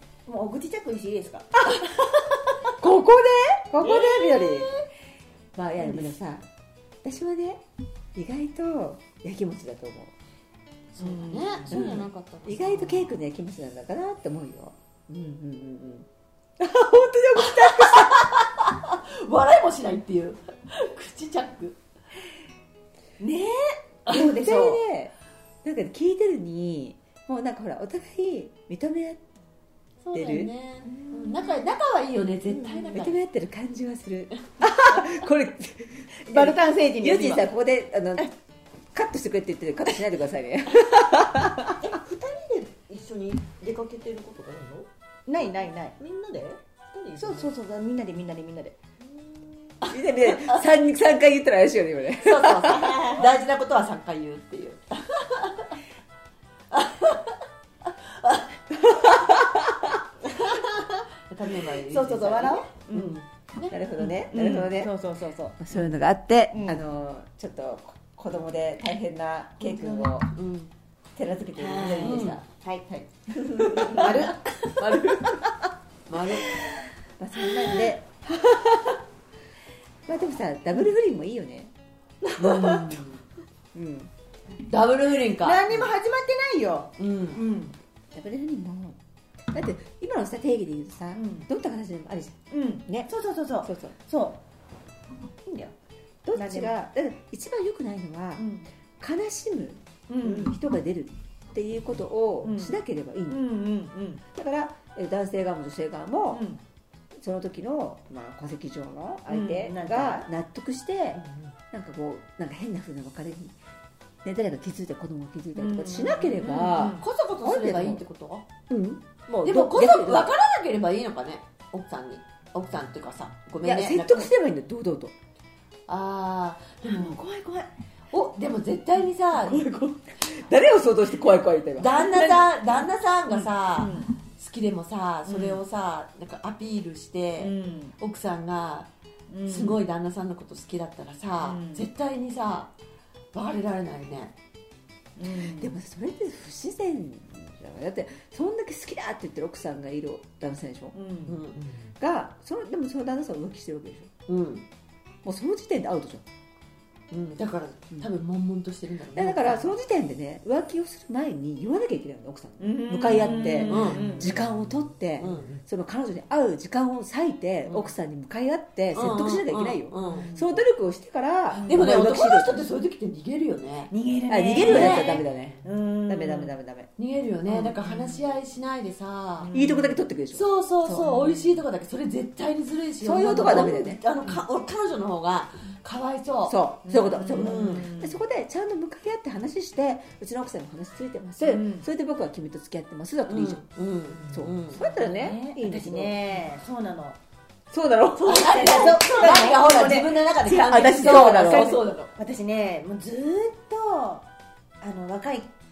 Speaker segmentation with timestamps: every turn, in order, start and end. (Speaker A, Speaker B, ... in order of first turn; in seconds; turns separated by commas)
Speaker A: 0.2-1.6, Speaker B: 2.8-4.7, Speaker C: 3.8-4.6, Speaker B: 5.5-6.4, Speaker A: 5.8-6.1, Speaker B: 7.0-7.6, Speaker B: 8.1-10.1, Speaker C: 10.9-13.0, Speaker A: 11.0-11.8, Speaker B: 11.7-16.1, Speaker B: 16.6-18.3, Speaker C: 17.3-21.8, Speaker A: 23.2-24.8, Speaker B: 24.1-25.1, Speaker B: 25.6-29.2, Speaker C: 30.0-33.2, Speaker B: 30.1-30.5, Speaker B: 32.9-38.3, Speaker A: 36.2-37.5, Speaker B: 38.9-41.8, Speaker D: 41.8-44.9, Speaker A: 45.3-45.9, Speaker D: 46.0-47.5, Speaker A: 47.1-48.7, Speaker D: 49.0-49.7, Speaker C: 49.8-50.6, Speaker B: 49.9-52.9, Speaker C: 52.2-55.7, Speaker C: 56.7-58.6, Speaker B: 58.9-59.7, Speaker C: 61.3-63.8, Speaker A: 61.9-63.2, Speaker B: 63.7-64.9, Speaker A: 64.0-65.6, Speaker B: 65.6-70.3, Speaker A: 66.5-66.8, Speaker A: 69.6-70.1, Speaker C: 70.3-70.7, Speaker B: 71.2-75.4, Speaker A: 71.6-72.8, Speaker C: 72.0-72.4, Speaker A: 73.5-74.3, Speaker C: 76.1-76.5, Speaker B: 77.2-79.0, Speaker B: 80.1-81.7, Speaker B: 82.4-83.0, Speaker C: 82.4-83.1, Speaker B: 83.7-84.1, Speaker C: 84.6-85.8, Speaker A: 85.4-87.7, Speaker C: 87.0-87.4, Speaker B: 88.1-89.0, Speaker B: 89.5-93.1, Speaker A: 91.1-91.5, Speaker A: 92.5-94.4, Speaker B: 93.6-93.9, Speaker A: 95.4-95.7, Speaker B: 96.2-98.5, Speaker A: 96.3-96.8, Speaker A: 98.4-98.7, Speaker B: 99.0-103.4, Speaker A: 100.1-100.6, Speaker A: 102.4-104.2, Speaker B: 104.3-106.4, Speaker A: 106.3-106.6, Speaker B: 107.2-113.5, Speaker A: 109.3-110.3, Speaker B: 114.2-118.0, Speaker A: 115.5-117.0, Speaker C: 116.4-118.5, Speaker B: 118.7-120.3, Speaker C: 119.4-124.3, Speaker B: 123.6-125.1, Speaker C: 125.9-127.2, Speaker A: 126.8-127.7, Speaker C: 128.1-129.7, Speaker B: 129.4-132.0, Speaker C: 131.8-138.9, Speaker A: 132.1-132.5, Speaker A: 133.3-134.1, Speaker A: 135.2-135.6, Speaker A: 137.4-137.9, Speaker A: 139.3-139.8, Speaker C: 139.4-142.7, Speaker A: 141.4-141.9, Speaker C: 143.3-144.3, Speaker A: 145.2-145.7, Speaker B: 145.4-150.9, Speaker A: 150.9-151.4, Speaker C: 151.3-151.6, Speaker B: 152.0-154.1, Speaker C: 154.3-154.7, Speaker B: 155.2-156.2, Speaker C: 157.1-159.8, Speaker B: 159.1-172.6, Speaker A: 162.6-164.3, Speaker C: 163.6-164.2, Speaker D: 163.7-165.6, Speaker C: 165.2-165.5, Speaker C: 167.6-167.9, Speaker C: 168.9-170.3, Speaker A: 170.0-170.4, Speaker A: 171.5-171.8, Speaker C: 171.7-173.9, Speaker A: 173.9-176.5, Speaker B: 174.3-176.9, Speaker C: 174.6-175.2, Speaker C: 177.0-179.5, Speaker A: 177.5-178.3, Speaker A: 179.4-180.0, Speaker B: 179.5-181.0, Speaker C: 180.3-186.6, Speaker A: 180.9-181.5, Speaker B: 183.0-184.0, Speaker B: 186.5-193.6, Speaker A: 186.8-188.2, Speaker C: 187.4-187.9, Speaker A: 191.4-191.8, Speaker C: 193.3-194.8, Speaker B: 194.3-196.2, Speaker A: 194.7-197.2, Speaker B: 197.7-198.7, Speaker C: 198.2-202.1, Speaker A: 198.2-204.2, Speaker B: 200.4-201.8, Speaker A: 204.8-205.5